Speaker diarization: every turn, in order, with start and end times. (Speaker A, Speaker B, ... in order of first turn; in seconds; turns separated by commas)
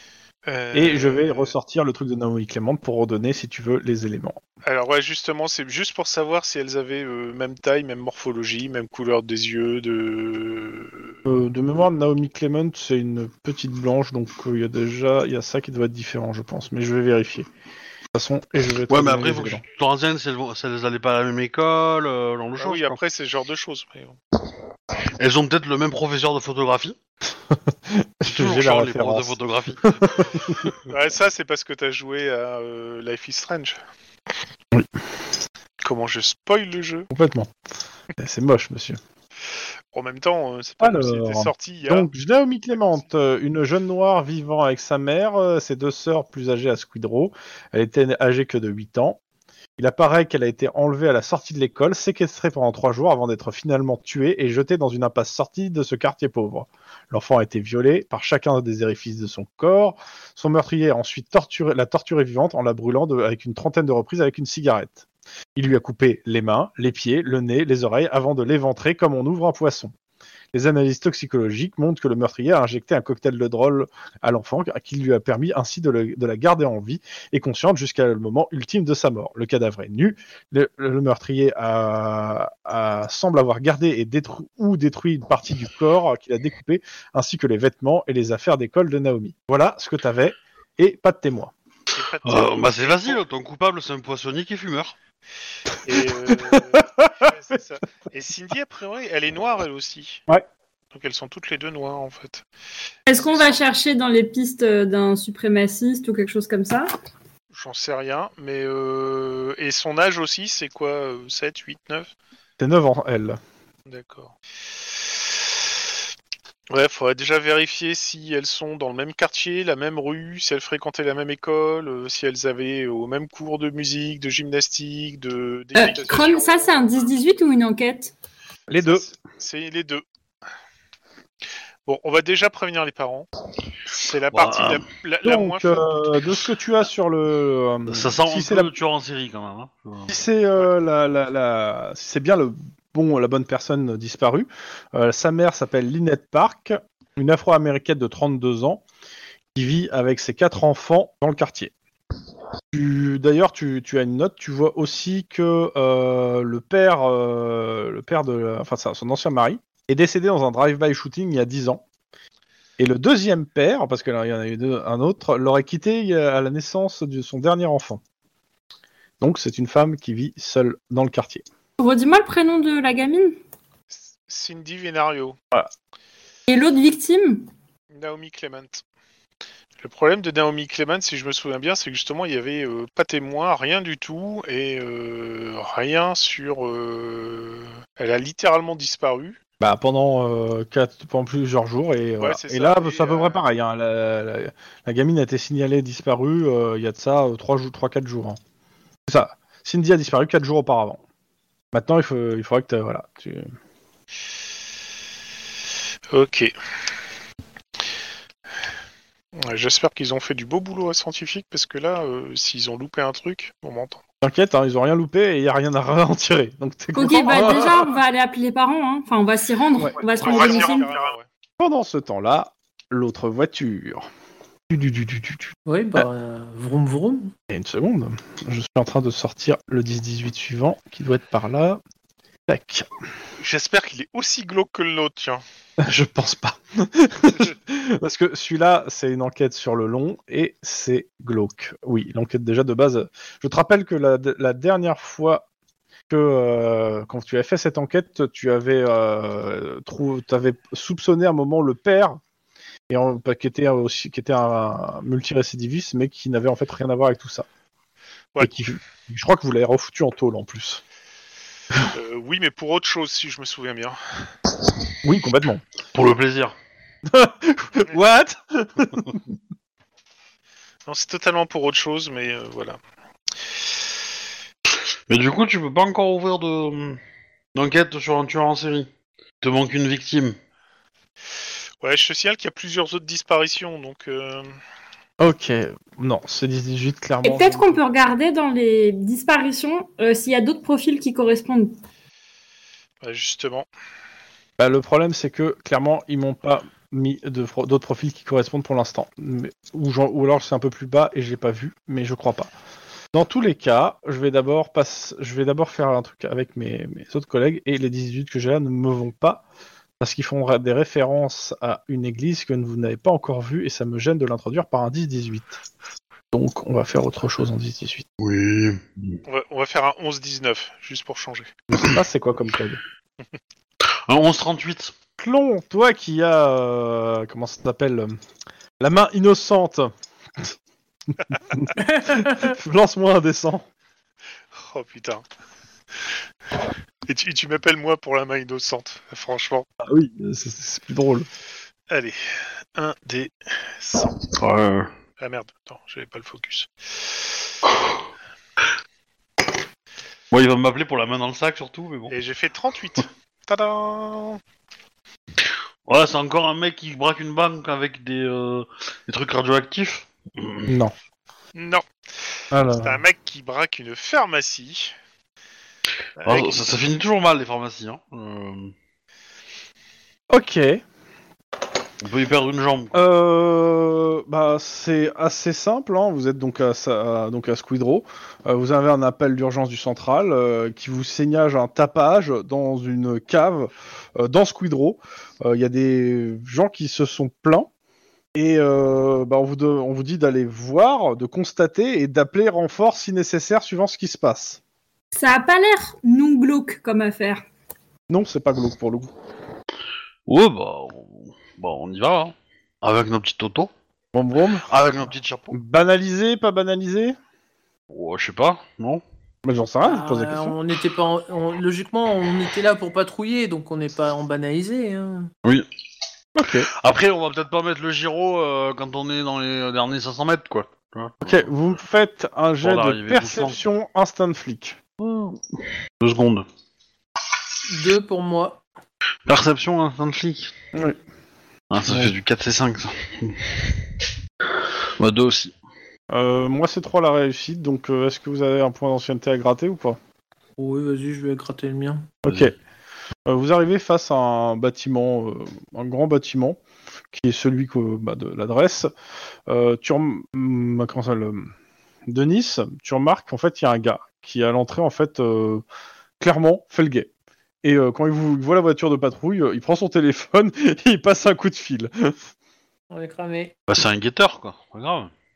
Speaker A: 0.5-1.5, Speaker B: 0.7-4.4, Speaker A: 4.6-11.2, Speaker B: 11.3-17.5, Speaker B: 18.1-19.6, Speaker C: 18.9-23.0, Speaker A: 22.6-24.2, Speaker C: 25.2-27.0, Speaker B: 27.5-30.7, Speaker C: 28.3-30.7, Speaker A: 30.9-33.8, Speaker A: 35.8-37.1, Speaker B: 37.1-37.5, Speaker B: 38.2-39.0, Speaker A: 39.9-42.1, Speaker B: 40.8-49.2, Speaker B: 49.8-69.9, Speaker B: 70.5-91.5, Speaker A: 91.9-93.2, Speaker C: 92.2-95.0, Speaker A: 95.8-100.2, Speaker B: 95.9-97.3, Speaker A: 100.9-102.4, Speaker D: 103.1-106.9, Speaker A: 107.5-112.1, Speaker B: 112.6-113.4, Speaker A: 113.9-114.3, Speaker A: 116.7-127.0, Speaker D: 125.8-128.1, Speaker B: 128.7-129.0, Speaker A: 128.8-130.1, Speaker A: 131.9-133.3, Speaker A: 133.8-136.1, Speaker C: 134.3-134.8, Speaker B: 135.2-138.7, Speaker C: 137.9-140.1, Speaker B: 140.1-148.8, Speaker B: 149.6-151.7, Speaker B: 152.7-161.8, Speaker B: 162.8-168.0, Speaker B: 169.2-171.4, Speaker D: 171.8-173.3, Speaker A: 173.9-175.4, Speaker D: 176.5-177.5, Speaker A: 177.9-178.8, Speaker A: 179.8-189.4, Speaker B: 189.6-198.4, Speaker A: 192.2-193.4, Speaker B: 199.1-201.0, Speaker B: 201.7-203.5, Speaker A: 206.1-206.5, Speaker A: 209.4-214.0, Speaker B: 214.2-217.9, Speaker D: 216.9-220.9, Speaker B: 219.8-220.4, Speaker A: 220.1-221.3, Speaker B: 221.6-224.1, Speaker B: 224.7-226.1, Speaker E: 225.7-227.3, Speaker B: 227.5-231.8, Speaker B: 232.5-232.9, Speaker A: 233.4-235.4, Speaker B: 235.8-245.4, Speaker B: 246.1-252.2, Speaker B: 252.9-257.5, Speaker B: 258.4-260.8, Speaker A: 261.9-264.2, Speaker B: 265.0-265.6, Speaker C: 265.9-266.5, Speaker B: 267.1-269.2, Speaker A: 270.9-272.8, Speaker C: 274.7-277.0, Speaker C: 277.6-278.9, Speaker C: 279.4-280.4, Speaker A: 281.8-284.5, Speaker B: 285.2-287.8, Speaker D: 287.2-291.8, Speaker A: 293.0-293.7, Speaker B: 294.6-302.5, Speaker B: 303.1-309.4, Speaker B: 310.0-315.6, Speaker B: 316.3-318.1, Speaker C: 318.2-319.2, Speaker A: 319.3-321.5, Speaker B: 321.7-322.8, Speaker C: 324.1-324.9, Speaker B: 325.2-328.2, Speaker B: 328.8-330.5, Speaker B: 331.5-333.6, Speaker E: 331.8-332.4, Speaker A: 334.6-335.2, Speaker A: 337.1-339.7, Speaker B: 339.8-341.3, Speaker A: 341.9-342.2, Speaker A: 342.8-344.1, Speaker C: 344.3-344.9, Speaker A: 345.2-346.7, Speaker C: 347.6-347.9, Speaker C: 350.3-352.1, Speaker A: 352.1-354.4, Speaker C: 355.4-360.7, Speaker B: 360.7-360.9, Speaker A: 361.6-361.9, Speaker B: 362.5-363.0, Speaker A: 362.7-364.9, Speaker A: 366.2-366.7, Speaker C: 366.2-368.7, Speaker B: 370.3-370.8, Speaker C: 372.0-373.0, Speaker B: 372.9-387.7, Speaker B: 388.4-394.6, Speaker D: 395.1-397.4, Speaker B: 398.1-399.1, Speaker C: 400.3-403.7, Speaker B: 404.1-404.7, Speaker C: 404.7-405.6, Speaker B: 405.5-407.1, Speaker C: 407.9-409.0, Speaker B: 409.4-410.6, Speaker E: 409.8-415.3, Speaker B: 416.4-416.7, Speaker C: 416.5-421.5, Speaker B: 421.2-424.8, Speaker C: 422.6-423.6, Speaker C: 425.0-425.4, Speaker C: 426.0-426.5, Speaker E: 427.7-428.6, Speaker C: 429.3-430.5, Speaker C: 431.7-433.8, Speaker B: 431.9-432.1, Speaker C: 435.0-435.5, Speaker B: 436.1-440.0, Speaker E: 440.6-442.2, Speaker B: 442.2-442.5, Speaker C: 442.3-442.5, Speaker B: 443.3-446.6, Speaker B: 447.1-448.9, Speaker B: 449.5-451.5, Speaker B: 452.1-455.6, Speaker B: 456.2-457.1, Speaker B: 457.6-462.2, Speaker E: 462.9-463.5, Speaker C: 463.7-465.1